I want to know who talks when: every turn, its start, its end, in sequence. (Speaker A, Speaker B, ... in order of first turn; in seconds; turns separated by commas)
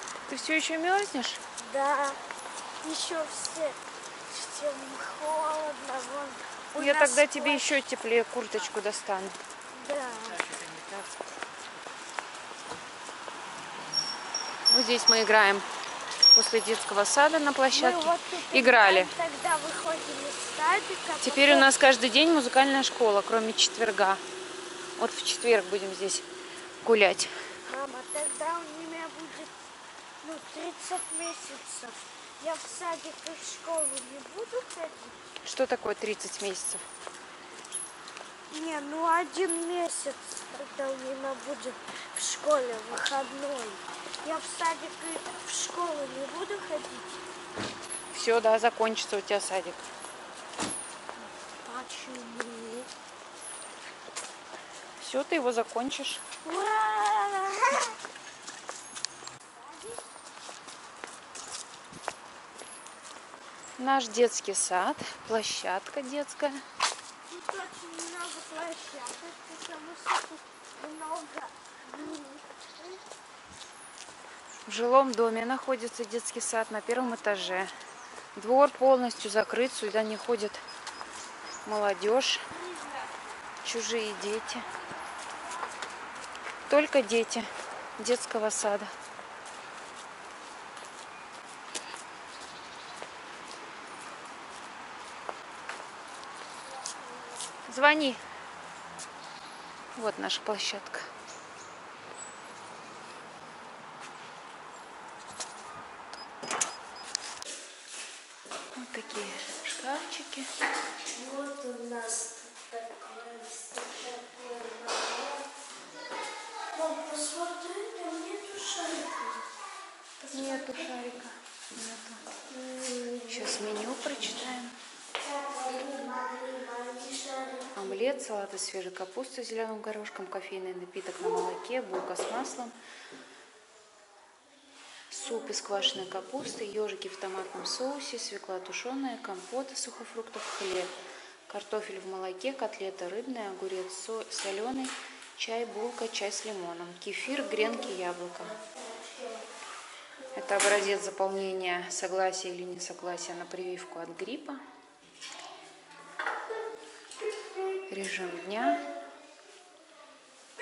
Speaker A: 0.3-1.4, Speaker B: 1.6-2.2, Speaker B: 2.8-7.8, Speaker A: 6.8-9.4, Speaker B: 9.7-10.5, Speaker A: 14.7-15.7, Speaker A: 16.4-19.1, Speaker B: 17.7-21.7, Speaker A: 21.2-24.2, Speaker A: 25.0-26.2, Speaker A: 26.8-27.3, Speaker B: 27.6-29.5, Speaker B: 30.2-35.2, Speaker A: 35.4-36.8, Speaker B: 38.5-47.2, Speaker A: 48.1-49.8, Speaker B: 51.6-52.9, Speaker A: 55.0-56.2, Speaker B: 56.4-58.0, Speaker B: 59.5-60.0, Speaker A: 63.8-66.6, Speaker B: 67.3-73.0, Speaker A: 74.7-77.7, Speaker A: 78.3-80.6, Speaker A: 81.7-82.4, Speaker A: 83.6-84.7, Speaker A: 86.7-88.9, Speaker A: 97.7-98.2, Speaker A: 100.0-101.1, Speaker A: 108.8-110.5, Speaker B: 111.1-115.5, Speaker B: 116.7-119.5, Speaker B: 120.2-120.9, Speaker A: 120.3-122.2, Speaker B: 122.5-123.8, Speaker A: 123.3-124.8, Speaker B: 125.2-128.1, Speaker A: 127.8-132.8, Speaker A: 135.1-140.9, Speaker A: 141.5-148.6, Speaker A: 150.3-154.6, Speaker A: 157.9-158.8